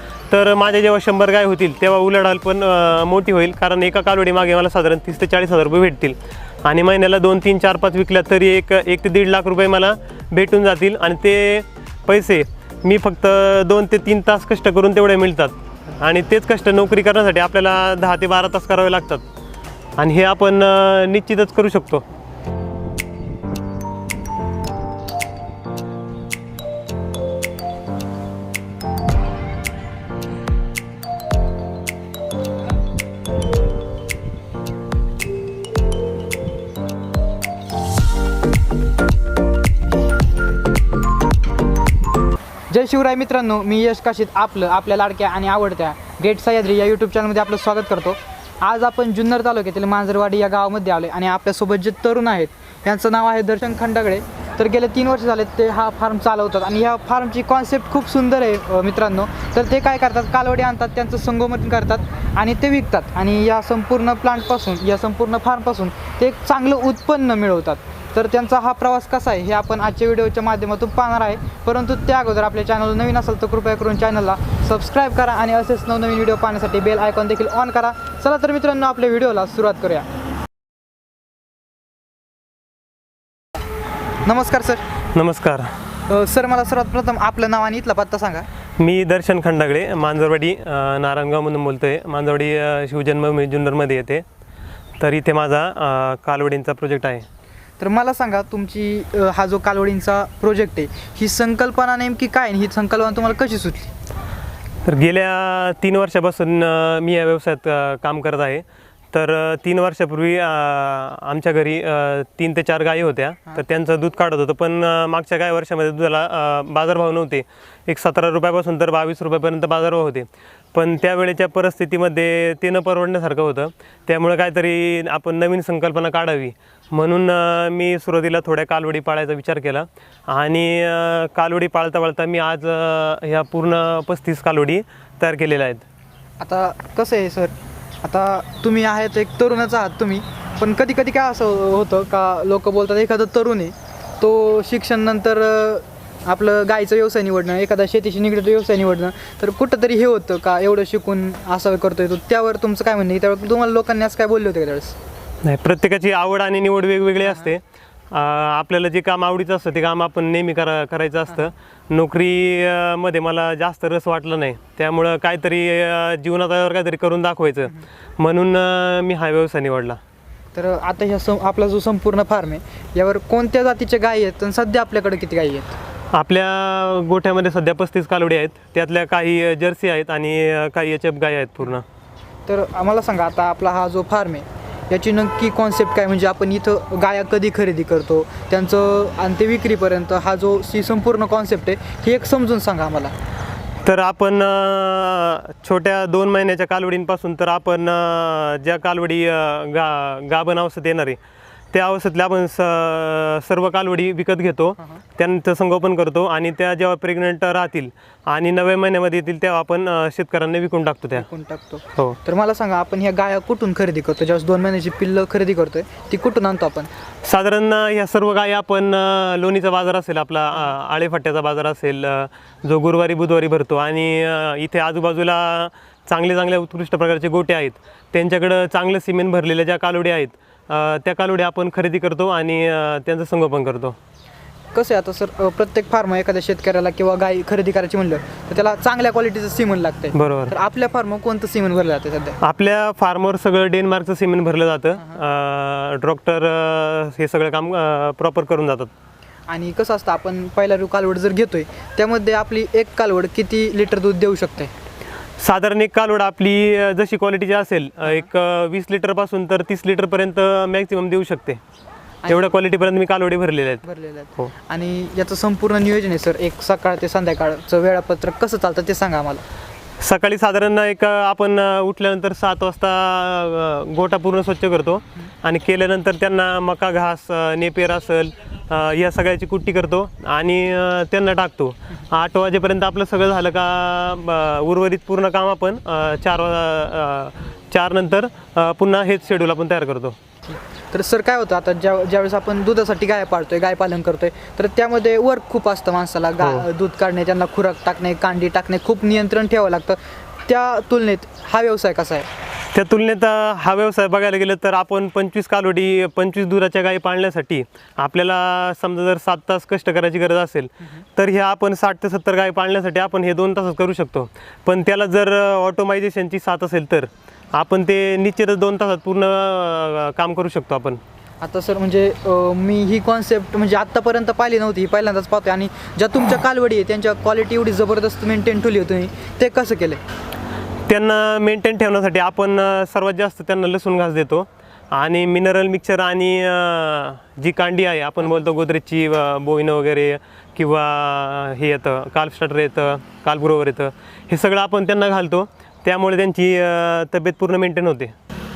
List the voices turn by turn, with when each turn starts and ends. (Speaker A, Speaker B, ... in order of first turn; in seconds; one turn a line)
Speaker A: 0.3-19.2
Speaker A: 20.0-22.1
Speaker B: 42.7-80.1
Speaker B: 84.2-84.9
Speaker A: 85.1-85.7
Speaker B: 86.1-88.5
Speaker A: 88.8-94.2
Speaker A: 95.0-97.3
Speaker B: 97.8-103.9
Speaker A: 104.8-135.8
Speaker B: 136.4-155.0
Speaker A: 155.4-170.0
Speaker B: 170.5-175.8
Speaker A: 176.1-181.8
Speaker B: 182.5-193.1
Speaker A: 193.8-201.2
Speaker A: 201.7-211.3
Speaker B: 211.2-216.9
Speaker A: 217.2-234.0
Speaker B: 234.7-242.4
Speaker A: 240.1-240.5
Speaker A: 242.4-248.9
Speaker B: 249.5-254.7
Speaker A: 255.4-261.6
Speaker B: 262.2-262.6
Speaker A: 262.3-263.8
Speaker B: 263.8-269.4
Speaker A: 270.0-290.2
Speaker B: 290.5-302.3
Speaker A: 296.4-296.7
Speaker A: 302.7-321.0
Speaker B: 321.4-330.0
Speaker A: 330.9-348.1